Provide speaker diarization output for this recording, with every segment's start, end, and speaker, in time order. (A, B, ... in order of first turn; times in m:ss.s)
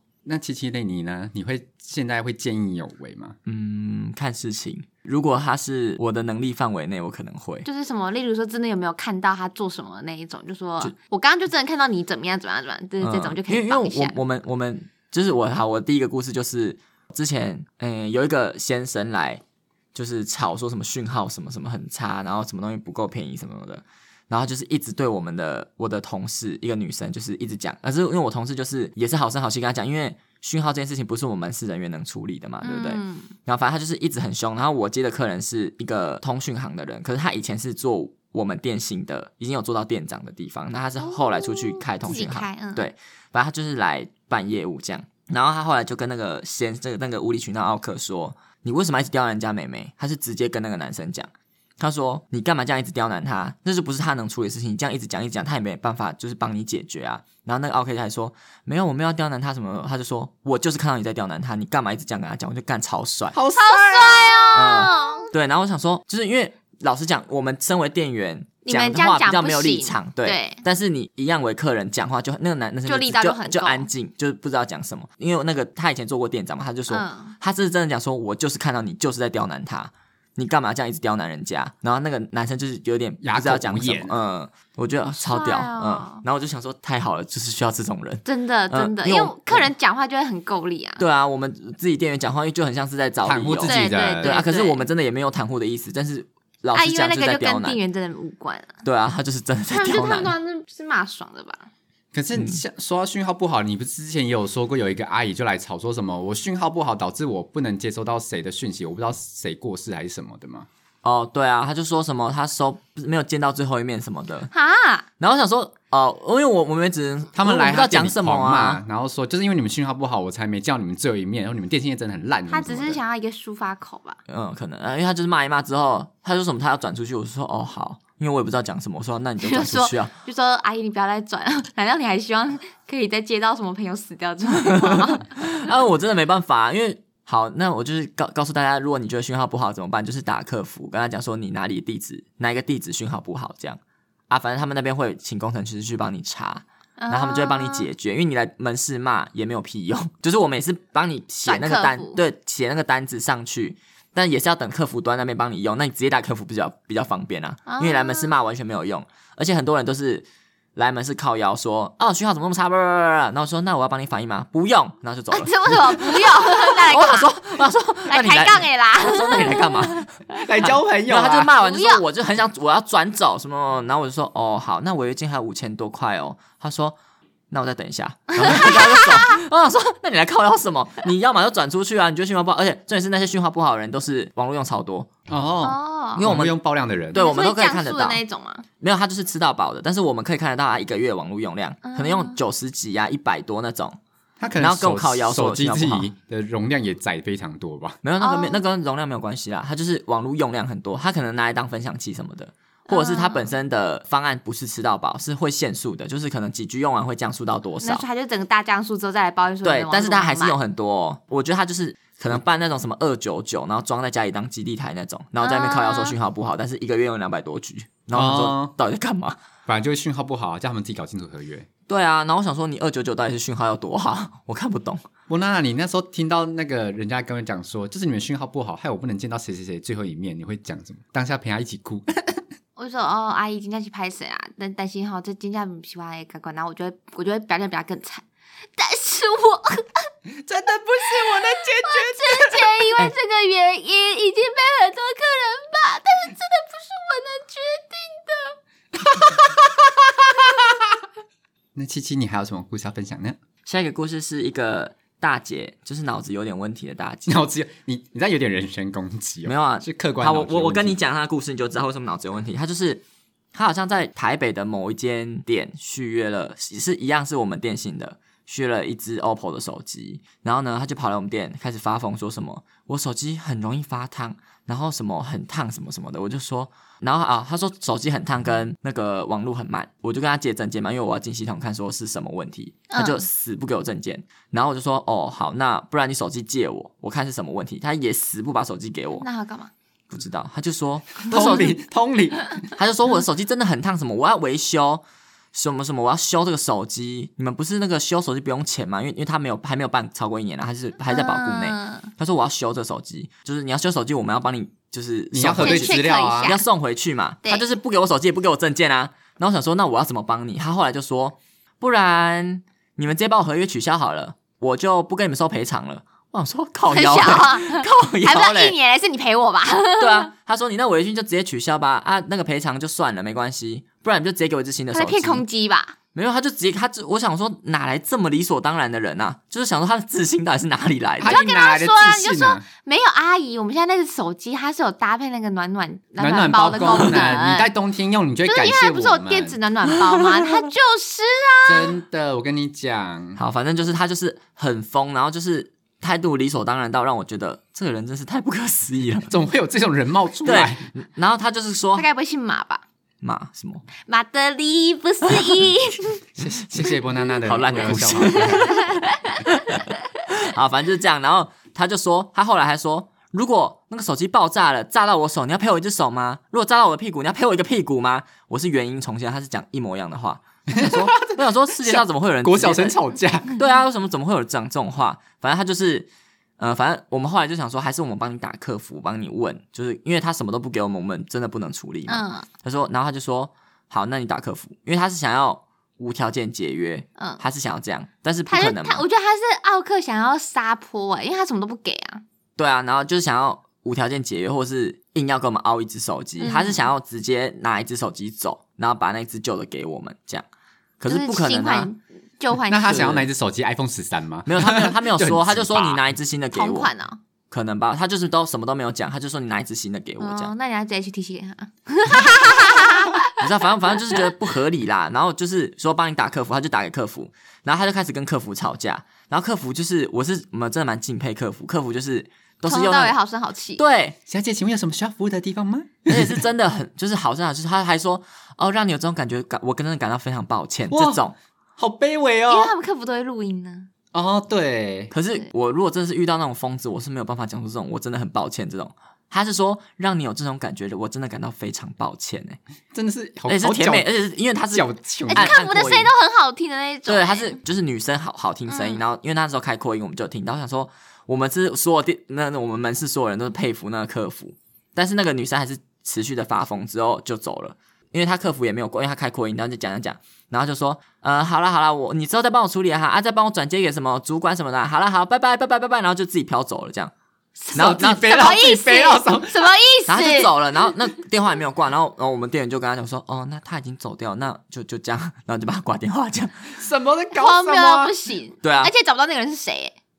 0:00.2-0:03.3 A
0:03.4-0:07.6 B
0:07.6-0:14.2 C
0:13.0-0:19.4 B
0:20.0-0:51.3 B
0:32.6-0:33.3 C
0:41.0-0:42.9 C
0:51.8-1:03.4 B
1:03.3-1:04.6 A
1:03.6-1:05.3 C
1:04.5-1:29.7 B
1:08.6-1:10.6 C
1:12.8-1:13.9 C
1:16.9-1:17.4 C
1:23.2-1:24.2 A
1:25.2-1:26.2 C
1:28.2-1:31.0 C
1:31.0-1:37.8 B
1:33.2-1:34.3 A
1:33.6-1:34.9 C
1:36.7-1:38.8 C
1:38.8-1:40.3 B
1:39.7-1:41.7 C
1:42.1-1:50.7 A
1:42.3-1:42.6 B
1:51.0-1:54.5 B
1:54.5-1:55.0 C
1:55.2-1:58.8 B
1:57.3-2:03.0 A
2:02.5-2:04.2 C
2:04.3-2:10.1 B
2:09.4-2:15.3 C
2:14.7-2:23.8 B
2:24.3-2:57.0 B
2:27.0-2:27.9 C
2:31.4-2:32.2 C
2:37.7-2:38.4 C
2:45.3-2:47.3 C
2:48.1-2:50.0 C
2:50.3-2:51.5 A
2:51.6-2:52.0 C
2:57.5-3:05.1 B
2:58.4-2:59.4 C
3:05.3-3:07.2 A
3:05.6-3:06.3 C
3:06.2-3:06.6 B
3:07.1-3:08.2 B
3:07.1-3:08.6 C
3:08.8-3:14.0 B
3:11.8-3:12.4 C
3:14.4-3:18.0 A
3:14.6-3:16.1 B
3:18.0-3:28.0 B
3:18.2-3:18.6 C
3:22.9-3:23.5 C
3:27.8-3:30.6 C
3:29.6-3:39.4 B
3:35.4-3:36.2 C
3:38.1-3:38.7 A
3:39.7-3:41.7 A
3:41.9-3:45.0 B
3:45.3-3:52.4 A
3:52.8-4:00.1 C
4:00.4-4:02.8 A
4:01.2-4:08.6 C
4:09.1-4:09.9 A
4:11.8-4:13.4 A
4:13.6-4:17.4 B
4:17.3-4:21.0 A
4:19.4-4:23.0 B
4:23.5-4:49.2 B
4:42.9-4:43.2 C
4:49.2-4:49.7 C
4:50.1-4:51.8 B
4:51.3-4:52.6 A
4:52.8-4:55.0 B
4:55.5-5:18.8 B
5:01.1-5:02.1 C
5:05.3-5:06.5 A
5:05.6-5:06.6 C
5:16.9-5:20.3 C
5:20.0-5:25.4 B
5:24.9-5:26.0 C
5:26.1-5:31.4 B
5:31.2-5:32.6 A
5:31.2-5:37.7 C
5:36.2-5:39.6 A
5:36.8-5:37.2 B
5:38.4-5:41.9 C
5:41.6-5:43.4 A
5:43.4-5:49.3 B
5:49.3-5:50.8 A
5:50.4-5:52.0 B
5:51.9-5:52.8 C
5:53.2-5:53.8 B
5:54.0-5:56.2 C
5:56.4-5:58.7 A
5:57.4-5:58.9 B
5:58.1-6:00.0 C
5:59.4-6:29.1 B
6:10.7-6:13.6 A
6:22.1-6:22.5 C
6:27.2-6:27.4 C
6:28.4-6:32.2 C
6:32.6-6:40.4 B
6:36.4-6:36.9 C
6:41.0-6:41.9 B
6:41.0-6:43.2 C
6:42.7-6:46.0 A
6:42.9-6:43.3 B
6:44.4-6:46.9 B
6:46.5-6:47.2 C
6:47.5-6:50.5 B
6:50.2-6:53.3 C
6:53.4-7:03.2 B
7:02.6-7:03.8 C
7:03.8-7:04.2 B
7:04.3-7:06.4 A
7:06.1-7:11.4 B
7:10.9-7:11.2 A
7:11.8-7:12.7 A
7:12.5-7:13.9 C
7:14.1-7:15.1 A
7:15.1-7:22.6 B
7:22.9-7:24.1 A
7:23.5-7:26.1 B
7:24.7-7:25.6 A
7:25.3-7:27.6 C
7:27.1-7:47.1 B
7:28.7-7:29.0 C
7:47.6-7:50.6 C
7:47.7-7:48.3 B
7:47.7-7:49.7 A
7:50.1-7:56.8 B
7:56.8-7:58.1 A
7:57.3-7:59.9 C
7:58.6-7:58.9 B